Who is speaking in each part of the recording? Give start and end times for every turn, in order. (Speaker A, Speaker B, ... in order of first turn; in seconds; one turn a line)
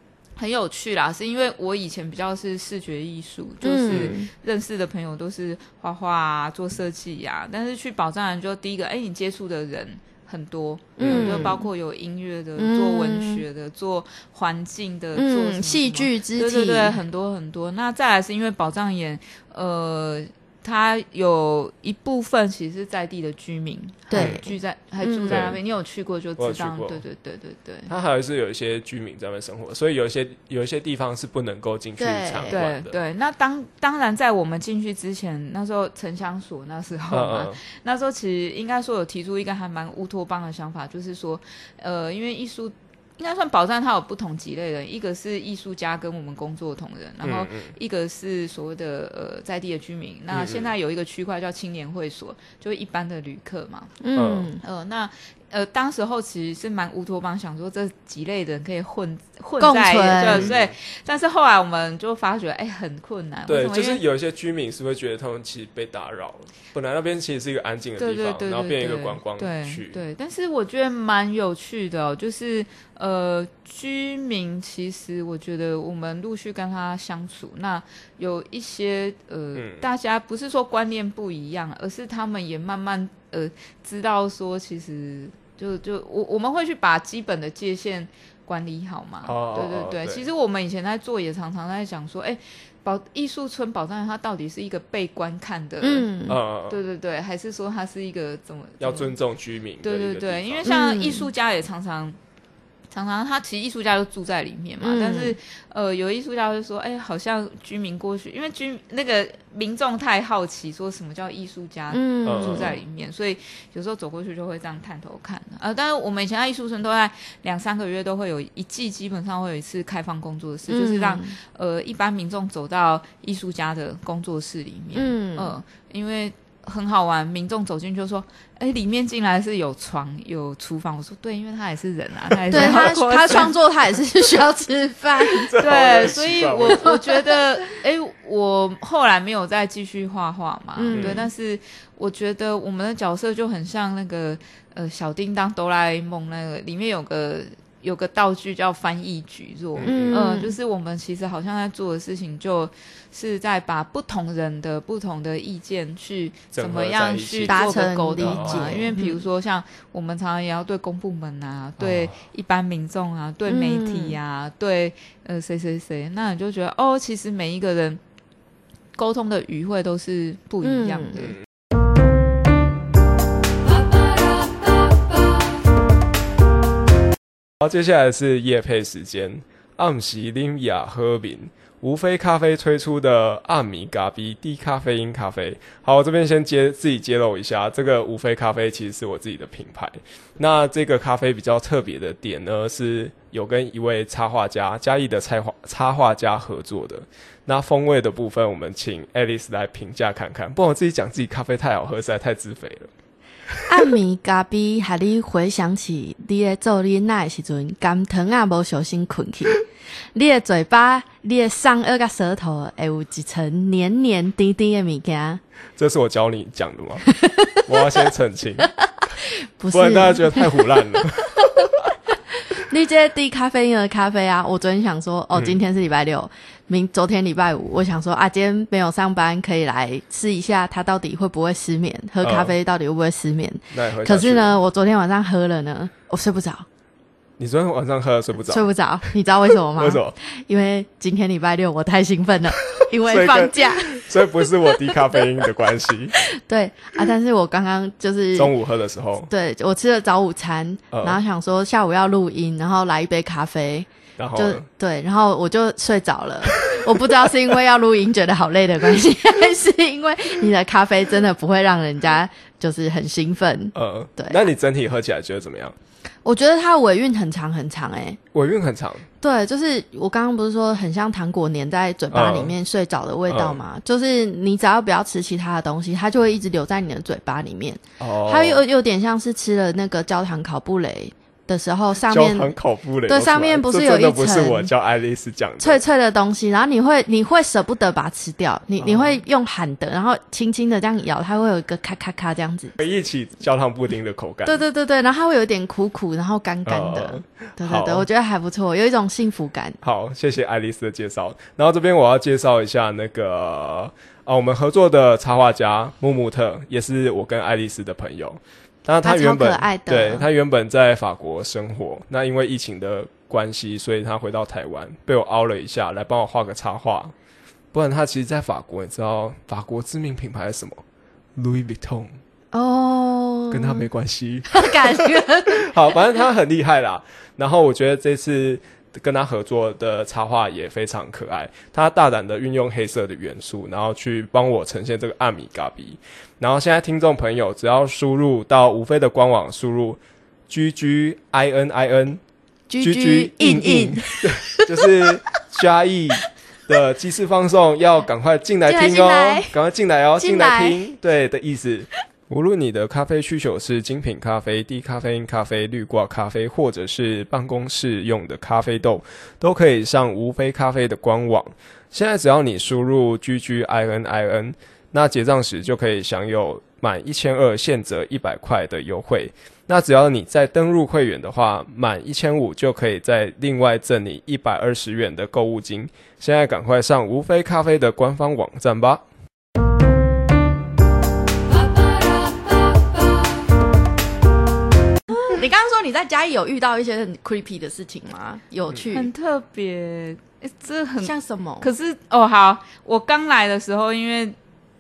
Speaker A: 0.4-27.9
Speaker B: 3.6-4.3
Speaker C: 3.9-4.2
Speaker B: 11.0-11.7
Speaker C: 11.0-11.6
Speaker B: 12.6-13.4
Speaker B: 15.1-17.0
Speaker B: 24.1-25.5
Speaker C: 24.2-24.4
Speaker C: 25.3-25.6
Speaker C: 26.4-27.0
Speaker C: 27.9-33.0
Speaker B: 32.0-32.6
Speaker A: 32.5-53.9
Speaker C: 37.1-37.6
Speaker C: 47.2-47.8
Speaker C: 50.3-50.7
Speaker B: 54.0-54.6
Speaker C: 54.2-54.5
Speaker A: 54.6-64.0
Speaker B: 59.6-60.5
Speaker C: 60.2-60.7
Speaker C: 63.5-70.0
Speaker A: 68.0-96.1
Speaker C: 79.6-79.8
Speaker C: 89.2-90.2
Speaker B: 95.8-96.4
Speaker C: 96.3-96.8
Speaker A: 96.7-99.2
Speaker C: 98.8-100.7
Speaker A: 99.8-102.2
Speaker B: 100.7-101.3
Speaker A: 102.9-133.6
Speaker B: 104.8-105.4
Speaker B: 111.9-112.7
Speaker C: 112.2-112.8
Speaker B: 120.7-121.4
Speaker B: 124.9-125.5
Speaker C: 132.5-132.9
Speaker B: 132.5-135.5
Speaker C: 135.4-136.9
Speaker A: 135.6-168.0
Speaker B: 136.7-137.4
Speaker B: 140.8-141.3
Speaker C: 140.9-141.2
Speaker C: 149.8-150.2
Speaker B: 149.8-150.6
Speaker C: 156.5-158.8
Speaker B: 157.5-159.2
Speaker C: 161.8-162.2
Speaker B: 163.5-164.2
Speaker A: 169.0-171.4
Speaker B: 170.6-171.2
Speaker C: 177.6-202.9
Speaker B: 203.7-209.6
Speaker B: 210.1-215.4
Speaker C: 215.8-217.1
Speaker B: 217.1-221.7
Speaker C: 217.6-218.7
Speaker C: 219.7-221.9
Speaker B: 222.5-236.7
Speaker C: 225.3-225.6
Speaker C: 232.2-232.5
Speaker C: 233.7-234.6
Speaker C: 237.4-238.7
Speaker B: 238.5-244.1
Speaker C: 239.8-240.2
Speaker C: 242.8-246.2
Speaker B: 244.7-245.2
Speaker B: 246.3-248.5
Speaker C: 248.3-249.3
Speaker B: 249.3-264.4
Speaker C: 250.9-251.2
Speaker C: 254.2-254.6
Speaker C: 256.5-257.3
Speaker C: 263.8-265.8
Speaker B: 266.2-268.2
Speaker C: 268.3-269.1
Speaker B: 269.2-282.6
Speaker C: 272.1-272.5
Speaker C: 273.3-273.6
Speaker C: 278.0-278.6
Speaker C: 282.1-285.8
Speaker B: 283.1-284.7
Speaker B: 285.6-292.8
Speaker C: 288.8-289.2
Speaker C: 292.8-294.6
Speaker B: 294.4-299.8
Speaker C: 296.6-298.1
Speaker C: 299.8-317.1
Speaker B: 309.0-310.3
Speaker C: 317.7-320.8
Speaker C: 321.4-322.2
Speaker B: 322.5-323.9
Speaker C: 323.5-342.2
Speaker B: 324.5-326.0
Speaker B: 342.7-344.9
Speaker C: 342.8-379.0
Speaker B: 348.6-349.5
Speaker B: 350.2-350.9
Speaker B: 385.1-389.1
Speaker A: 388.9-394.4
Speaker B: 391.0-391.7